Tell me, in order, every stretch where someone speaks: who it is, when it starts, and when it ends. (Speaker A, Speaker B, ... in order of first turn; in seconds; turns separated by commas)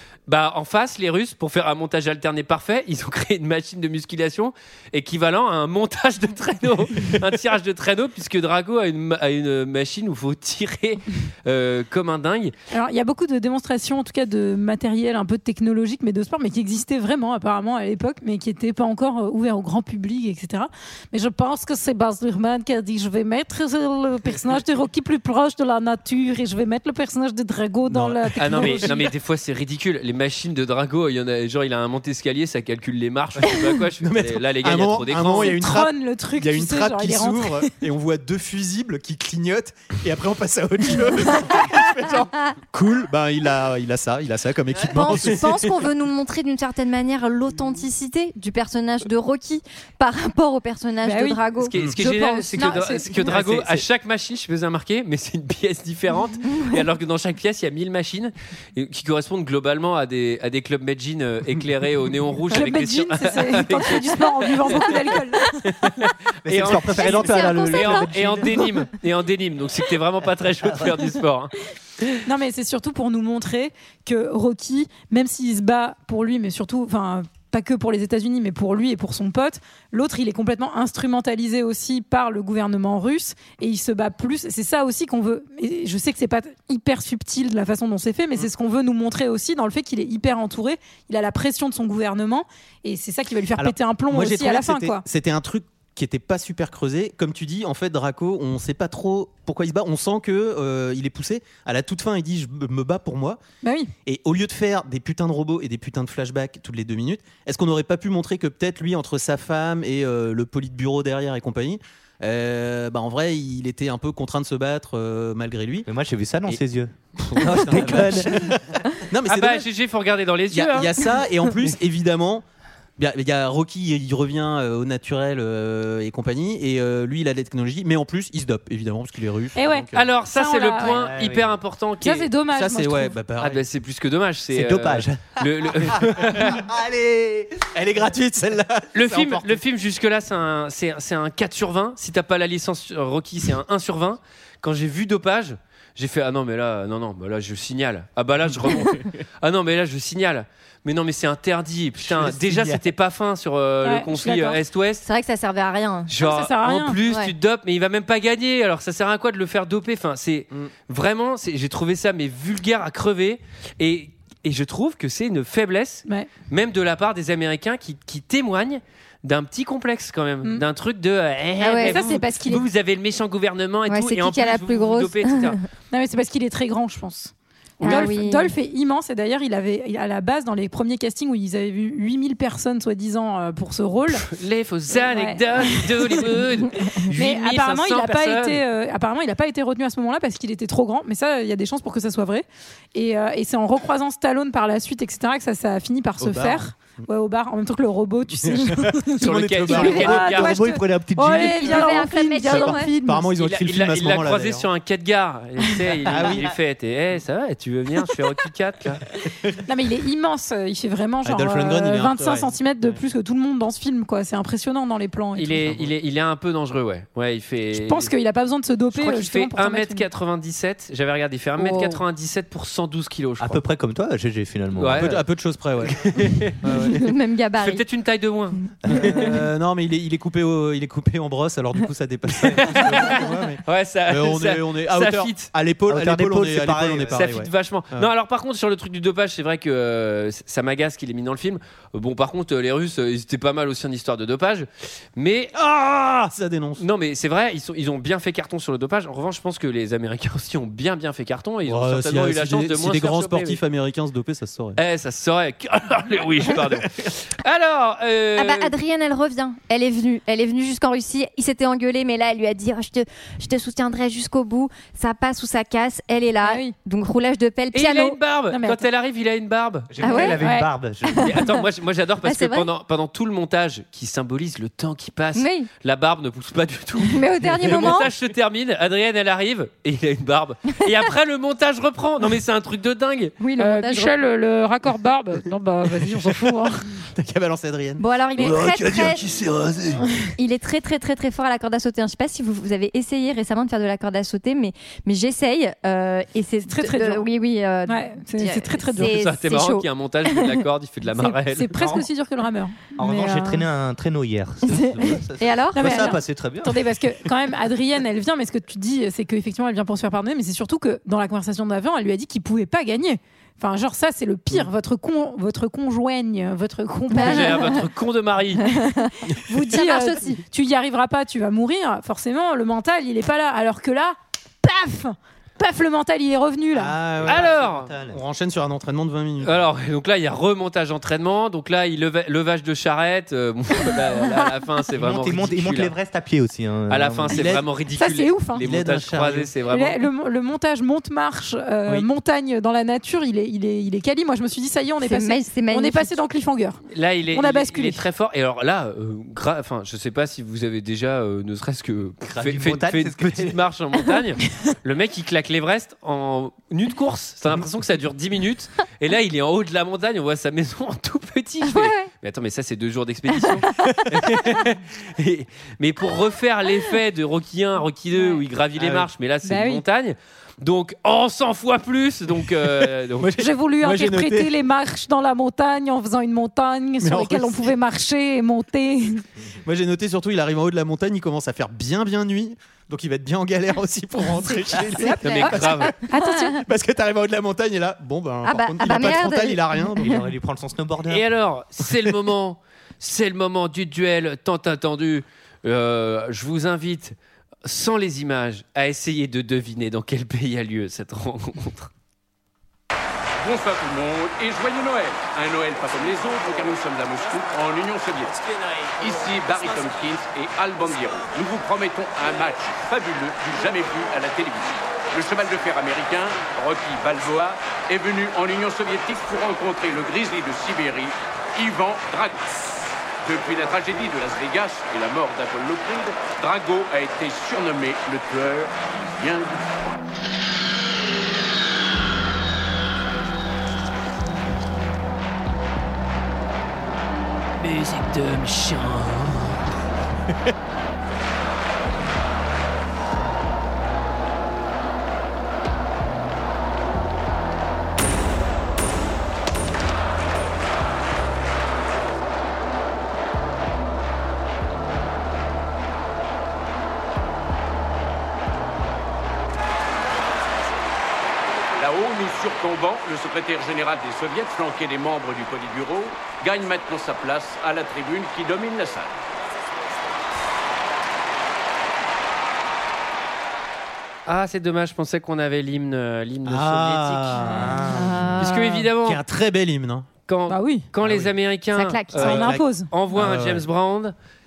Speaker A: 0.3-12.5, Speaker B: 12.7-29.0, Speaker C: 27.9-28.9, Speaker A: 28.4-35.6, Speaker C: 34.0-45.8, Speaker B: 35.3-37.7, Speaker D: 44.9-52.9, Speaker B: 51.0-51.4, Speaker A: 51.6-65.1, Speaker B: 52.6-53.2, Speaker C: 53.3-53.8, Speaker D: 56.5-56.8, Speaker B: 62.5-65.6, Speaker A: 65.6-72.2, Speaker E: 66.4-68.7, Speaker D: 66.7-68.7, Speaker B: 72.2-95.0, Speaker C: 93.6-103.4, Speaker B: 103.6-103.9, Speaker C: 104.0-115.9, Speaker E: 115.9-118.5, Speaker C: 117.2-119.7, Speaker A: 119.3-120.9, Speaker C: 120.5-122.4, Speaker C: 123.0-130.0, Speaker B: 129.5-131.0, Speaker A: 129.9-132.3, Speaker E: 130.8-131.5, Speaker B: 132.0-133.1, Speaker C: 132.5-133.6, Speaker A: 133.4-136.6, Speaker E: 134.5-137.6, Speaker C: 135.9-136.6, Speaker C: 137.7-139.6, Speaker A: 138.9-155.1, Speaker C: 148.7-149.0, Speaker C: 152.1-152.8, Speaker B: 153.8-154.6, Speaker D: 155.0-156.1, Speaker A: 156.1-175.6, Speaker B: 156.2-157.0, Speaker D: 157.0-157.3, Speaker D: 171.6-172.1, Speaker B: 171.8-172.6, Speaker D: 173.9-175.6, Speaker B: 175.9-184.3, Speaker D: 177.8-178.5, Speaker A: 177.8-178.1, Speaker A: 184.1-188.6, Speaker B: 184.9-186.3, Speaker B: 187.1-203.3, Speaker C: 196.2-196.7, Speaker C: 198.4-200.3, Speaker A: 199.2-200.6, Speaker E: 199.9-202.0, Speaker D: 201.3-202.9, Speaker C: 202.5-204.7, Speaker A: 203.4-209.0, Speaker C: 206.1-206.5, Speaker E: 206.1-206.5, Speaker B: 209.7-215.7, Speaker C: 211.2-213.0, Speaker A: 215.3-218.1, Speaker C: 215.6-215.9, Speaker B: 217.7-220.1, Speaker A: 218.9-223.6, Speaker D: 221.6-222.0, Speaker E: 223.4-225.2, Speaker A: 224.8-225.2, Speaker C: 224.9-227.1, Speaker A: 225.8-226.7, Speaker D: 226.9-227.8, Speaker A: 227.6-228.6, Speaker E: 228.8-229.3, Speaker C: 228.9-238.1, Speaker A: 232.6-235.5, Speaker E: 235.9-237.2, Speaker A: 237.1-245.5, Speaker C: 245.5-246.8, Speaker A: 246.8-253.6, Speaker C: 251.7-254.8, Speaker A: 254.8-258.7, Speaker C: 256.5-256.7, Speaker D: 258.4-268.2, Speaker B: 266.4-266.7, Speaker A: 267.7-269.9, Speaker B: 268.5-268.8, Speaker E: 269.9-271.4, Speaker D: 270.0-270.4, Speaker B: 270.2-270.7, Speaker A: 271.2-283.4, Speaker D: 272.2-272.7, Speaker D: 275.3-275.7, Speaker D: 277.0-278.1, Speaker D: 283.4-284.2, Speaker F: 283.6-286.9, Speaker C: 286.0-286.4, Speaker C: 287.1-290.0, Speaker D: 288.0-289.3, Speaker D: 290.4-300.6, Speaker B: 296.7-297.2, Speaker B: 297.9-299.1, Speaker A: 299.0-301.7, Speaker B: 301.2-303.6, Speaker E: 301.7-302.1, Speaker E: 303.0-306.8, Speaker D: 304.7-306.2, Speaker B: 305.8-317.8, Speaker D: 317.1-317.9, Speaker A: 317.1-318.7, Speaker D: 318.7-319.1, Speaker B: 318.7-327.0, Speaker D: 319.7-320.4, Speaker C: 326.7-329.7, Speaker E: 327.0-328.2, Speaker A: 327.2-327.9, Speaker A: 329.4-335.9, Speaker E: 334.9-337.6, Speaker A: 336.9-340.0, Speaker C: 337.3-337.6, Speaker B: 337.9-338.6, Speaker C: 338.5-339.5, Speaker B: 339.7-348.0, Speaker D: 345.0-346.1, Speaker A: 346.9-373.4, Speaker E: 352.2-353.6, Speaker D: 361.6-362.1, Speaker C: 368.8-369.1, Speaker B: 369.4-369.8, Speaker C: 372.6-374.5, Speaker B: 373.4-379.2, Speaker C: 377.0-377.7, Speaker C: 379.6-386.0, Speaker B: 384.7-385.5, Speaker D: 384.9-386.6, Speaker A: 385.2-385.9, Speaker B: 386.1-386.6, Speaker C: 386.6-390.2, Speaker D: 388.4-390.2, Speaker E: 390.0-391.3, Speaker A: 391.1-401.9, Speaker G: 403.4-408.4, Speaker G: 409.0-422.5, Speaker G: 423.2-430.0, Speaker A: 437.6-439.6, Speaker G: 461.8-469.1, Speaker A: 474.2-477.5, Speaker C: 476.4-477.8, Speaker E: 477.4-478.4, Speaker D: 477.9-478.9, Speaker A: 478.4-479.2, Speaker C: 479.0-480.1, Speaker A: 480.3-484.1, Speaker B: 480.5-480.9, Speaker C: 481.0-481.4, Speaker D: 481.7-482.5, Speaker B: 482.2-482.9, Speaker C: 483.1-483.6